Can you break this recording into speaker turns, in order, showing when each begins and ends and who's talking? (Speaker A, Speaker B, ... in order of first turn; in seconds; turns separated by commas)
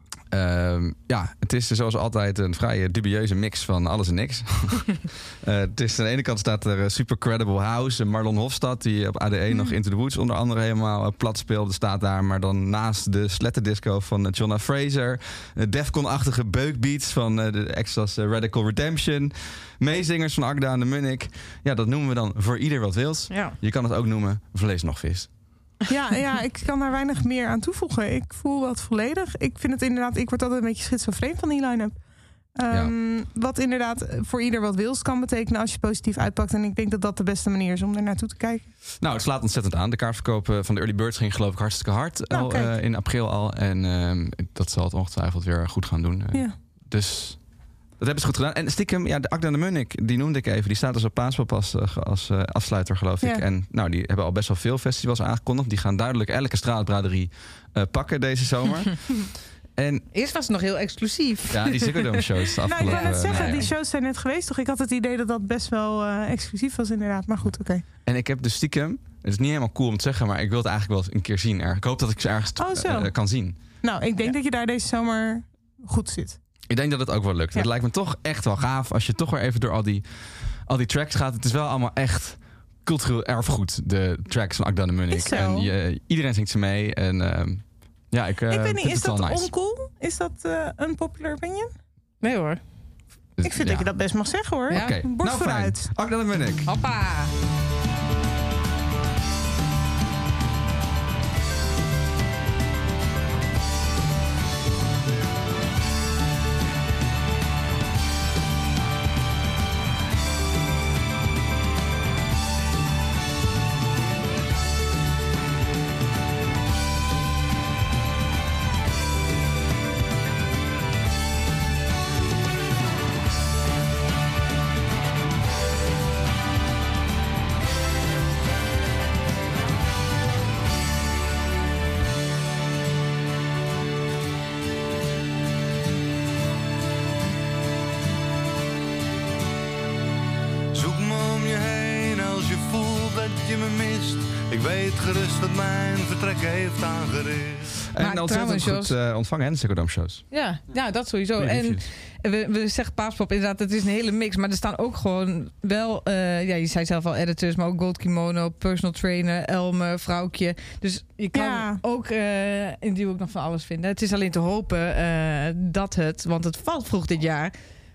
Speaker A: 0.3-25.3, Speaker B: 23.3-23.6, Speaker C: 25.9-38.7, Speaker A: 32.7-32.9, Speaker A: 39.0-60.1, Speaker C: 42.3-42.7, Speaker B: 60.1-62.1, Speaker A: 61.5-63.7, Speaker C: 62.7-67.8, Speaker B: 62.8-63.6, Speaker A: 68.0-73.8, Speaker C: 72.6-76.4, Speaker A: 76.7-89.5, Speaker C: 85.1-85.7, Speaker C: 88.5-91.7, Speaker B: 92.2-92.6, Speaker A: 93.4-96.8, Speaker C: 93.4-95.9, Speaker B: 94.7-95.0, Speaker B: 96.7-97.3, Speaker D: 140.7-147.7, Speaker A: 147.9-150.3, Speaker B: 148.0-148.9, Speaker B: 150.3-167.6, Speaker A: 151.4-151.9, Speaker C: 161.3-161.8